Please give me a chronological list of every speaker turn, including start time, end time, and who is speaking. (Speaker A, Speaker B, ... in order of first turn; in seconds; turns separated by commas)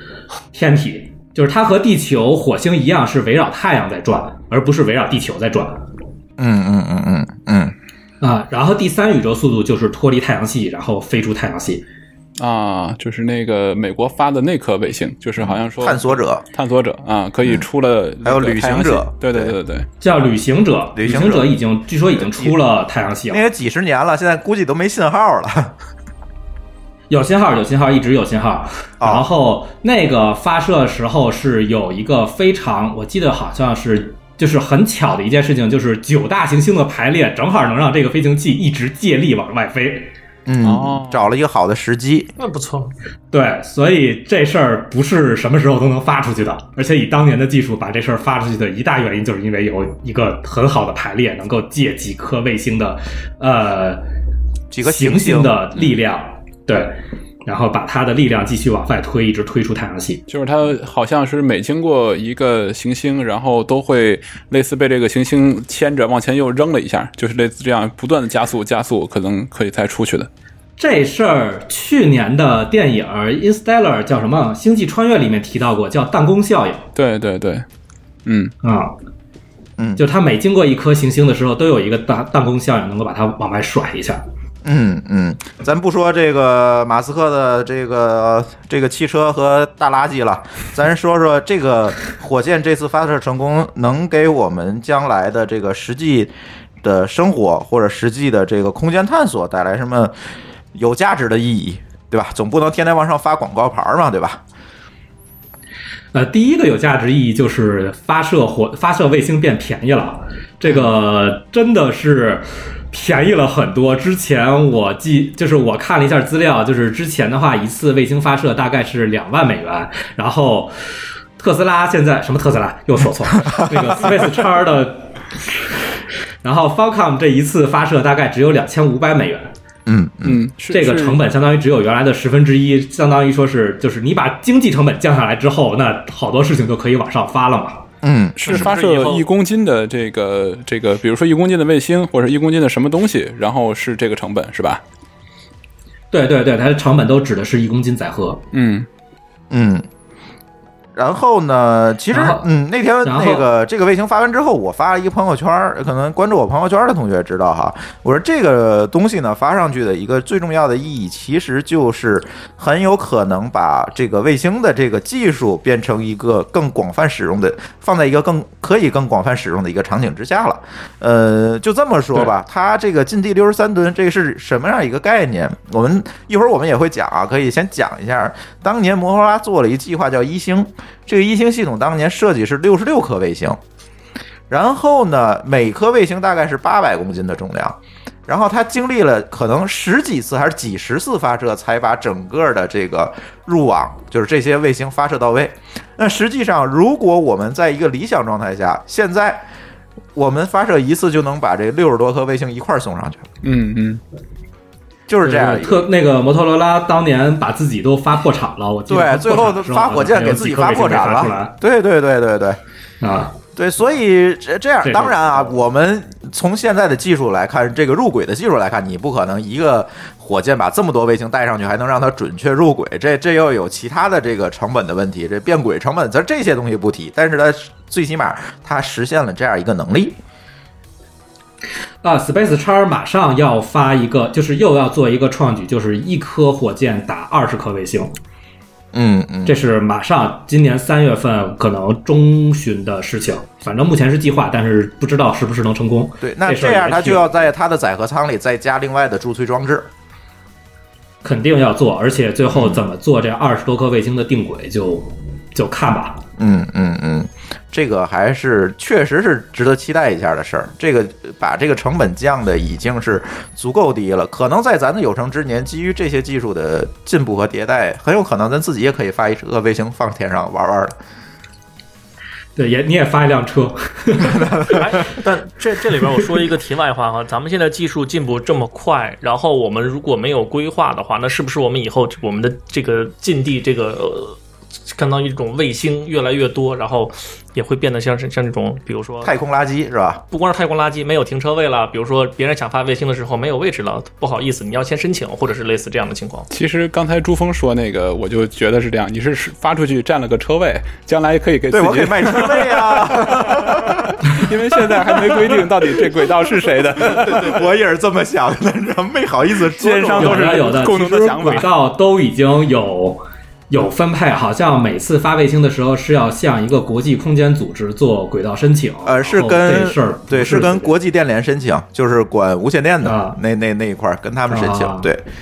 Speaker A: 0.5-5.8, Speaker B: 6.4-7.8, Speaker A: 8.2-11.8, Speaker C: 12.4-19.9, Speaker B: 15.4-16.4, Speaker B: 18.2-19.5, Speaker A: 20.0-23.4, Speaker B: 20.9-21.6, Speaker B: 22.1-22.6, Speaker B: 23.3-25.7, Speaker A: 27.1-40.1, Speaker B: 29.0-29.3, Speaker B: 40.5-42.3, Speaker C: 40.6-41.3, Speaker D: 42.4-42.9, Speaker A: 43.3-54.0, Speaker B: 54.7-55.6, Speaker A: 54.8-60.2, Speaker C: 60.3-70.3, Speaker A: 70.8-76.8, Speaker C: 77.0-77.6, Speaker C: 78.3-78.5, Speaker A: 78.6-78.9, Speaker A: 80.0-84.2, Speaker B: 84.6-96.3, Speaker B: 96.8-100.1, Speaker B: 100.7-104.4, Speaker A: 106.1-120.7, Speaker B: 110.6-110.9, Speaker A: 121.4-125.1, Speaker B: 123.5-124.0, Speaker A: 126.4-129.5, Speaker B: 129.9-130.4, Speaker C: 130.2-131.2, Speaker A: 130.7-137.8, Speaker B: 138.0-138.7, Speaker D: 138.4-139.3, Speaker C: 138.4-144.8, Speaker A: 146.1-148.4, Speaker C: 148.5-148.9, Speaker B: 149.5-149.9, Speaker B: 150.9-183.6, Speaker A: 152.1-152.5, Speaker A: 153.0-153.5, Speaker B: 184.5-199.4, Speaker B: 200.1-203.2, Speaker C: 203.4-204.0, Speaker B: 205.1-205.9, Speaker A: 205.2-211.5, Speaker B: 208.9-212.6, Speaker A: 213.0-213.3, Speaker B: 213.6-230.2, Speaker A: 214.8-215.5, Speaker A: 232.0-238.1, Speaker B: 238.9-239.6, Speaker A: 239.5-247.3, Speaker B: 246.2-249.9, Speaker A: 251.2-256.2, Speaker B: 252.5-252.8, Speaker B: 256.4-271.0, Speaker A: 272.6-274.8, Speaker B: 274.4-274.7, Speaker D: 274.7-289.4, Speaker B: 289.2-290.2, Speaker D: 290.3-296.5, Speaker C: 296.5-307.6, Speaker B: 301.7-304.1, Speaker B: 307.1-310.6, Speaker C: 309.8-311.7, Speaker A: 310.2-321.0, Speaker B: 319.1-325.2, Speaker A: 323.0-323.4, Speaker A: 324.5-325.1